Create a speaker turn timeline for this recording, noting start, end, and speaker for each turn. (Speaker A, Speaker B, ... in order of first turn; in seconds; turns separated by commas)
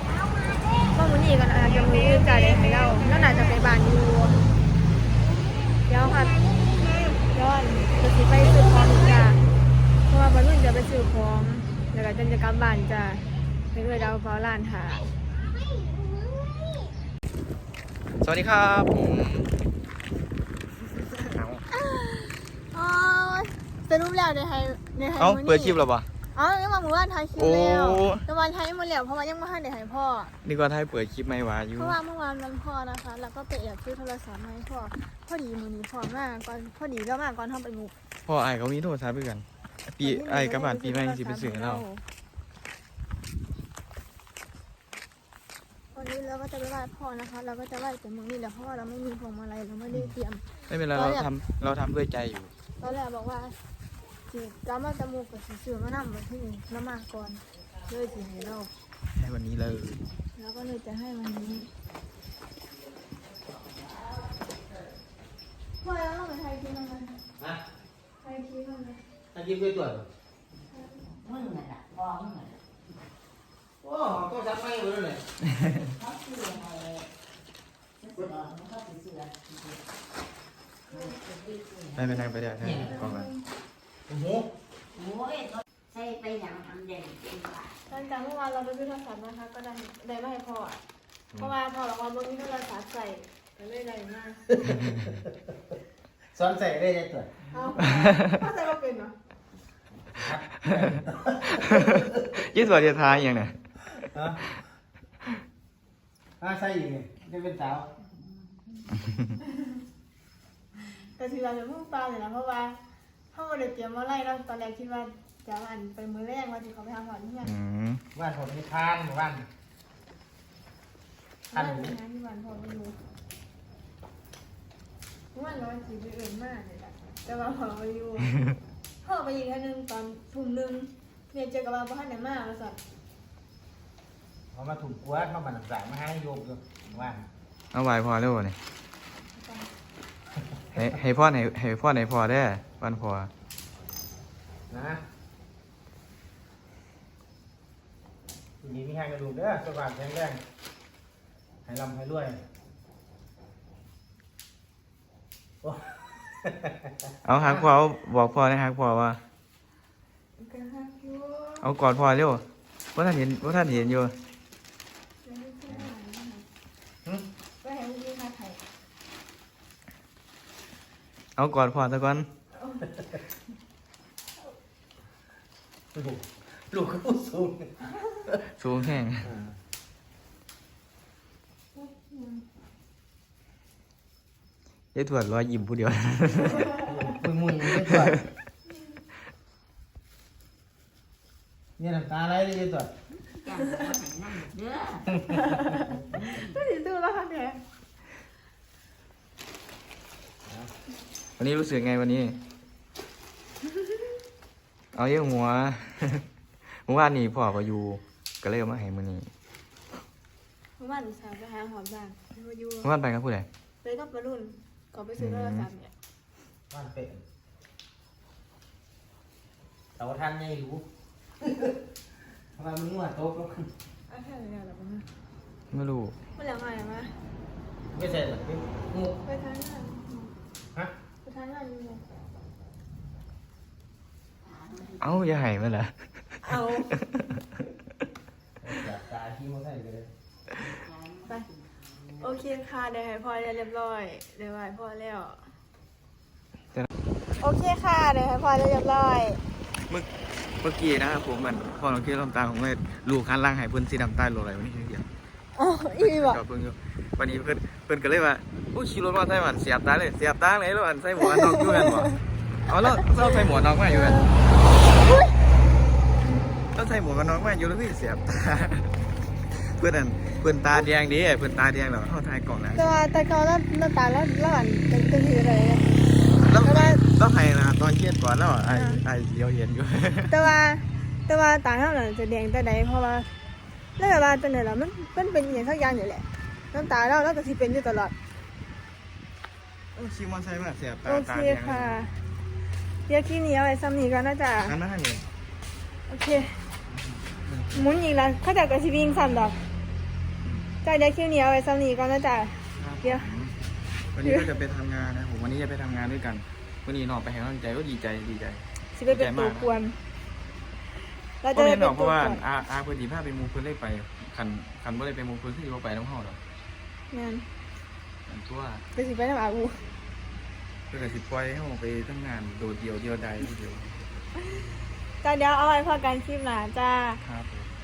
Speaker A: 0.9-4.4, Speaker A: 5.9-6.4, Speaker A: 7.3-9.4, Speaker A: 10.1-15.1, Speaker B: 18.2-19.5, Speaker B: 21.3-21.6, Speaker A: 21.7-25.8, Speaker B: 25.2-26.1, Speaker A: 26.3-30.3, Speaker B: 27.4-28.2, Speaker B: 30.4-32.0, Speaker A: 31.8-37.9, Speaker B: 38.2-41.9, Speaker A: 40.0-42.0, Speaker A: 45.9-51.3, Speaker B: 50.7-52.5, Speaker A: 52.8-53.6, Speaker A: 54.3-58.7, Speaker B: 59.1-60.0, Speaker A: 60.4-61.7, Speaker A: 65.8-67.2, Speaker C: 67.4-67.6, Speaker A: 68.2-69.0, Speaker C: 69.3-70.1, Speaker A: 70.7-71.0, Speaker D: 71.2-72.5, Speaker C: 73.8-75.3, Speaker D: 76.0-77.1, Speaker D: 78.7-79.5, Speaker B: 81.9-83.3, Speaker C: 82.6-83.0, Speaker C: 84.1-84.5, Speaker D: 85.0-87.7, Speaker A: 87.9-90.8, Speaker A: 91.4-94.5, Speaker C: 94.7-95.1, Speaker C: 96.3-97.4, Speaker A: 97.5-99.2, Speaker C: 100.1-102.0, Speaker B: 100.7-101.0, Speaker B: 101.5-104.1, Speaker C: 104.1-104.4, Speaker C: 106.4-107.9, Speaker A: 111.0-112.8, Speaker A: 113.3-117.5, Speaker B: 117.5-118.0, Speaker C: 118.2-119.5, Speaker C: 121.5-122.0, Speaker A: 121.5-123.0, Speaker A: 125.3-128.3, Speaker A: 129.0-132.8, Speaker C: 134.5-137.3, Speaker B: 137.7-138.6, Speaker A: 139.3-139.7, Speaker B: 140.7-143.3, Speaker C: 144.7-145.0, Speaker C: 148.6-150.4, Speaker C: 151.7-152.4, Speaker C: 155.6-157.7, Speaker B: 157.2-159.2, Speaker A: 160.4-161.7, Speaker B: 161.6-164.2, Speaker A: 163.5-164.0, Speaker A: 165.2-166.5, Speaker A: 167.6-168.6, Speaker B: 171.4-172.3, Speaker C: 175.9-177.7, Speaker B: 178.6-179.3, Speaker C: 179.2-179.5, Speaker A: 181.8-182.4, Speaker B: 184.9-186.8, Speaker C: 186.8-188.2, Speaker C: 191.8-192.9, Speaker D: 193.4-195.0, Speaker A: 195.3-197.6, Speaker C: 200.5-200.7, Speaker B: 201.4-202.4, Speaker B: 204.9-209.3, Speaker A: 210.8-212.9, Speaker B: 212.8-213.5, Speaker A: 213.8-215.9, Speaker B: 215.2-215.7, Speaker C: 216.7-217.2, Speaker C: 220.0-220.8, Speaker C: 221.4-221.7, Speaker C: 222.6-223.7, Speaker A: 224.1-225.1, Speaker B: 225.7-226.2, Speaker A: 226.4-227.2, Speaker C: 227.9-229.2, Speaker A: 229.2-230.3, Speaker A: 231.2-232.0, Speaker B: 235.0-236.4, Speaker A: 236.4-237.0, Speaker C: 238.6-240.1, Speaker A: 242.2-245.5, Speaker A: 247.4-249.4, Speaker B: 250.6-255.1, Speaker A: 255.6-256.4, Speaker B: 256.0-262.2, Speaker A: 261.4-261.9, Speaker B: 262.7-264.3, Speaker A: 263.9-264.3, Speaker A: 265.1-265.3, Speaker B: 266.7-268.9, Speaker B: 269.5-273.0, Speaker A: 272.8-277.0, Speaker B: 276.4-280.4, Speaker A: 278.7-279.0, Speaker A: 280.3-283.3, Speaker A: 284.0-288.1, Speaker B: 290.0-292.0, Speaker A: 291.1-292.2, Speaker A: 293.1-294.8, Speaker B: 294.6-295.2, Speaker A: 296.1-296.6, Speaker B: 296.9-297.9, Speaker A: 297.7-299.6, Speaker A: 300.8-303.3, Speaker B: 302.8-303.6, Speaker B: 304.1-309.7, Speaker A: 308.9-310.0, Speaker A: 311.4-312.4, Speaker B: 311.5-316.4, Speaker A: 317.1-317.5, Speaker B: 318.3-318.9, Speaker A: 318.9-319.9, Speaker B: 320.9-323.9, Speaker A: 325.2-327.2, Speaker B: 327.2-327.7